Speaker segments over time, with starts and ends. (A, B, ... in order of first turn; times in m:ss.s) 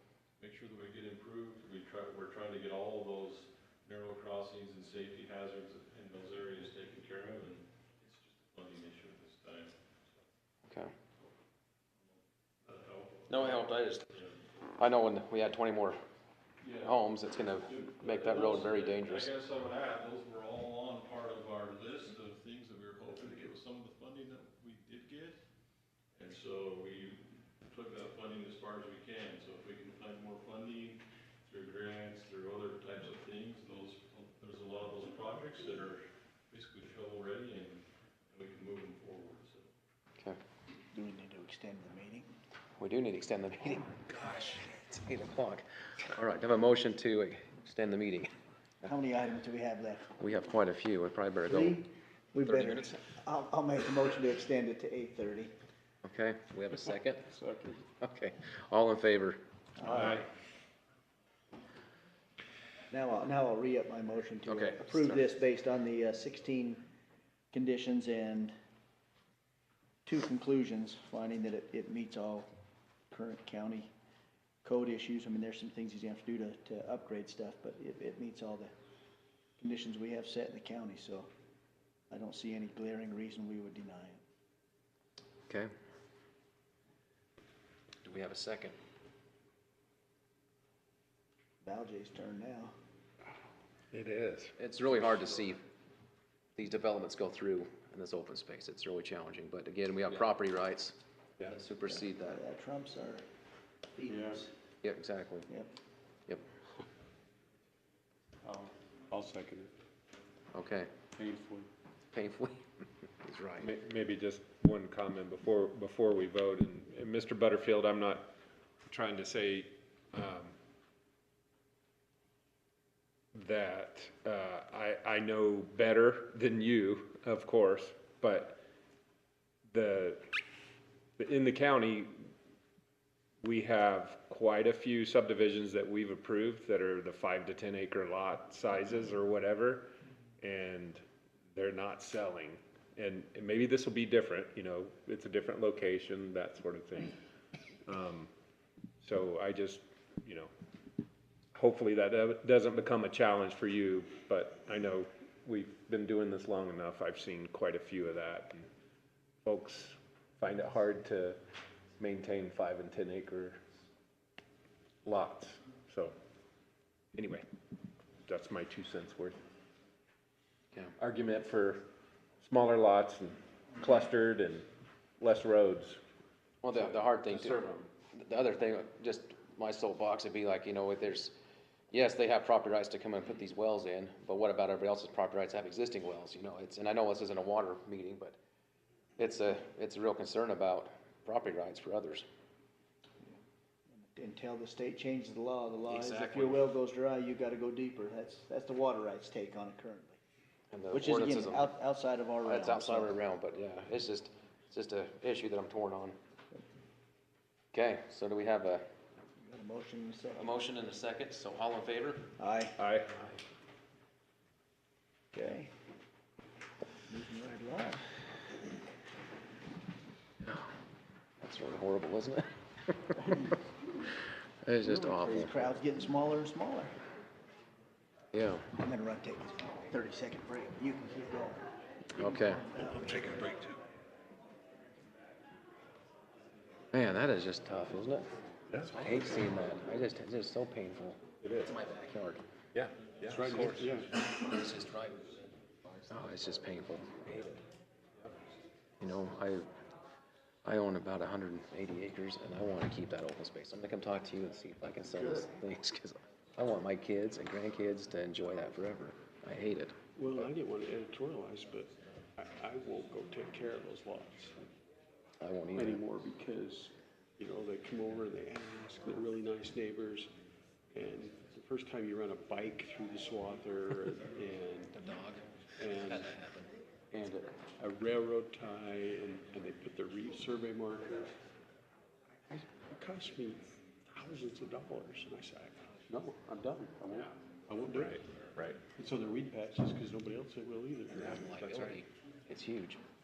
0:00.4-0:09.8 A
0:12.0-0:14.4 A
0:13.3-0:14.0 B
0:14.8-0:16.0 B
0:16.6-0:17.0 A
0:16.8-0:19.3 B
0:17.5-0:25.4 A
0:26.1-0:39.7 A
0:40.9-0:42.3 C
0:42.8-0:48.3 B
0:48.8-0:50.2 C
0:50.2-0:51.8 B
0:51.5-0:55.5 C
0:52.4-0:53.0 B
0:56.0-0:57.3 B
0:56.9-0:57.9 D
0:58.0-0:59.4 B
0:59.8-1:00.2 C
1:00.0-1:00.2 E
1:02.9-1:06.8 C
1:04.4-1:05.2 B
1:07.5-1:08.5 C
1:10.0-1:12.5 C
1:13.1-1:13.9 C
1:14.6-1:18.7 C
1:19.6-1:21.3 C
1:22.1-1:24.2 C
1:28.0-1:28.7 B
1:31.6-1:32.7 C
1:33.9-1:34.6 E
1:34.6-1:35.6 B
1:36.6-1:42.3 B
1:41.9-1:43.2 C
1:43.9-1:44.5 C
1:44.1-1:44.4 D
1:44.8-1:45.5 B
1:48.4-1:49.7 D
1:50.5-1:50.9 B
1:51.1-1:51.7 D
1:52.1-1:53.7 B
1:53.6-1:58.3 E
1:58.9-2:00.5 E
2:03.3-2:08.6 E
2:09.7-2:10.2 E
2:11.2-2:12.1 E
2:13.4-2:19.9 E
2:20.4-2:21.0 E
2:21.5-2:27.1 E
2:27.9-2:28.3 E
2:29.0-2:30.5 E
2:31.5-2:38.7 E
2:39.4-2:41.4 E
2:42.0-2:43.6 E
2:45.0-2:46.1 E
2:47.1-2:47.4 E
2:48.2-2:49.4 E
2:51.0-2:51.8 E
2:52.4-2:54.7 E
2:55.2-2:56.0 E
2:56.6-3:01.4 B
2:56.7-2:57.9 E
3:01.9-3:08.4 B
3:09.2-3:12.2 B
3:13.9-3:20.2 C
3:15.9-3:16.7 B
3:20.7-3:21.7 B
3:20.9-3:23.2 C
3:22.4-3:26.2 B
3:27.7-3:28.8 B
3:29.4-3:30.6 C
3:30.4-3:32.3 B
3:32.4-3:32.8 C
3:32.8-3:33.3 E
3:35.3-3:35.7 C
3:37.1-3:38.1 C
3:40.4-3:40.7 B
3:41.4-3:43.4 B
3:44.6-3:45.6 B
3:44.8-3:45.3 D
3:45.2-3:46.9 C
3:48.3-3:48.7 B
3:48.8-3:51.6 C
3:52.2-3:52.6 B
3:52.2-3:53.6 C
3:56.9-3:58.3 B
3:58.9-4:02.4 B
4:01.4-4:01.7 E
4:02.7-4:03.9 E
4:03.3-4:04.2 D
4:04.1-4:05.3 B
4:06.0-4:07.6 B
4:09.0-4:09.7 B
4:10.6-4:19.9 B
4:20.2-4:24.6 D
4:25.4-4:26.0 B
4:25.8-4:30.3 D
4:30.9-4:35.0 D
4:34.9-4:35.4 B
4:35.8-4:36.4 D
4:36.0-4:36.6 B
4:37.1-4:41.3 D
4:42.5-4:48.3 D
4:47.9-4:48.8 E
4:48.9-4:52.0 D
4:51.2-4:53.0 B